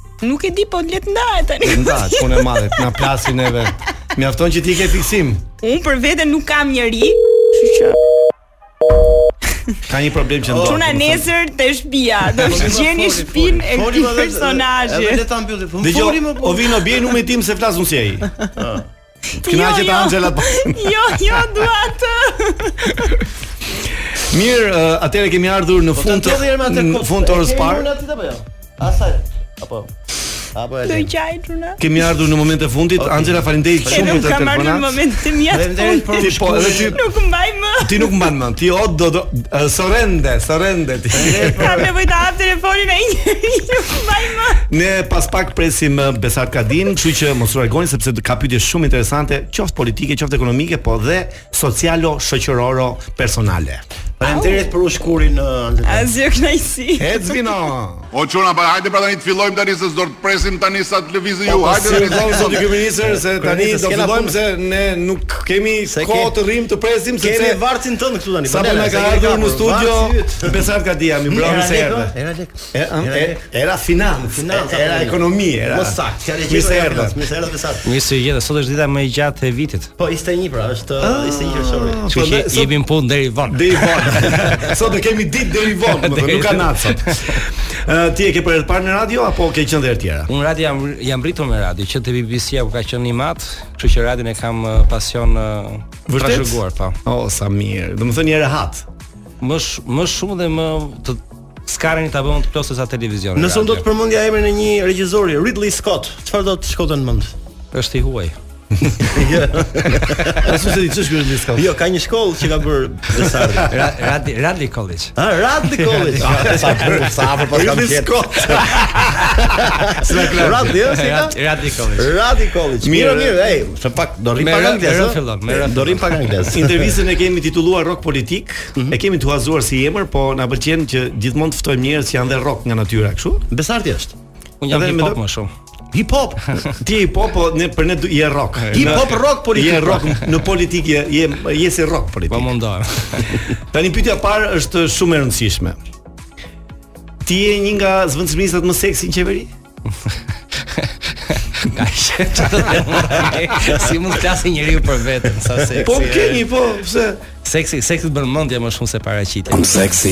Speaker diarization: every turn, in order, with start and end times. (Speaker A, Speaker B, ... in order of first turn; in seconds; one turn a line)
Speaker A: 0.2-2.8
Speaker B: 1.6-5.4
Speaker A: 5.6-8.0
Speaker B: 9.9-11.3
Speaker C: 10.4-10.9
Speaker A: 10.6-15.2
Speaker C: 12.4-16.8
Speaker B: 15.8-18.3
Speaker C: 18.6-18.9
Speaker A: 19.3-23.2
Speaker B: 19.4-21.4
Speaker B: 24.1-27.9
Speaker C: 25.9-29.9
Speaker C: 30.5-31.1
Speaker A: 30.9-31.8
Speaker B: 31.8-35.0
Speaker C: 33.0-34.4
Speaker A: 33.9-38.1
Speaker C: 35.5-37.0
Speaker B: 36.2-37.0
Speaker B: 37.8-41.9
Speaker C: 41.1-41.9
Speaker A: 41.4-44.6
Speaker B: 44.7-53.8
Speaker C: 54.2-56.1
Speaker A: 54.2-54.7
Speaker A: 55.9-57.3
Speaker B: 57.0-58.1
Speaker D: 58.1-62.6
Speaker C: 61.5-64.3
Speaker B: 61.5-67.6
Speaker C: 65.9-66.3
Speaker C: 67.2-70.6
Speaker B: 68.4-72.1
Speaker C: 71.3-73.4
Speaker B: 72.7-77.2
Speaker C: 74.3-77.8
Speaker E: 77.8-79.9
Speaker C: 80.0-82.1
Speaker B: 81.0-82.7
Speaker E: 82.1-84.4
Speaker B: 83.5-90.3
Speaker C: 84.0-84.5
Speaker E: 85.8-87.4
Speaker E: 90.3-96.9
Speaker B: 96.1-98.8
Speaker E: 99.4-103.8
Speaker C: 103.3-107.3
Speaker E: 107.7-108.3
Speaker C: 109.1-110.5
Speaker B: 110.4-111.7
Speaker C: 111.5-113.8
Speaker E: 113.7-115.1
Speaker C: 115.2-118.8
Speaker E: 115.8-116.9
Speaker B: 116.2-119.3
Speaker C: 119.4-121.4
Speaker B: 120.0-121.0
Speaker E: 120.8-122.1
Speaker C: 121.9-127.0
Speaker B: 122.8-123.5
Speaker E: 124.3-126.4
Speaker B: 126.5-133.4
Speaker C: 133.5-134.1
Speaker E: 134.6-135.5
Speaker B: 134.7-135.2
Speaker C: 135.9-136.6
Speaker B: 136.7-142.6
Speaker E: 138.6-139.2
Speaker C: 138.7-140.2
Speaker E: 142.3-143.3
Speaker B: 143.1-145.8
Speaker B: 147.2-149.5
Speaker E: 150.7-156.4
Speaker B: 155.8-157.2
Speaker E: 157.3-159.9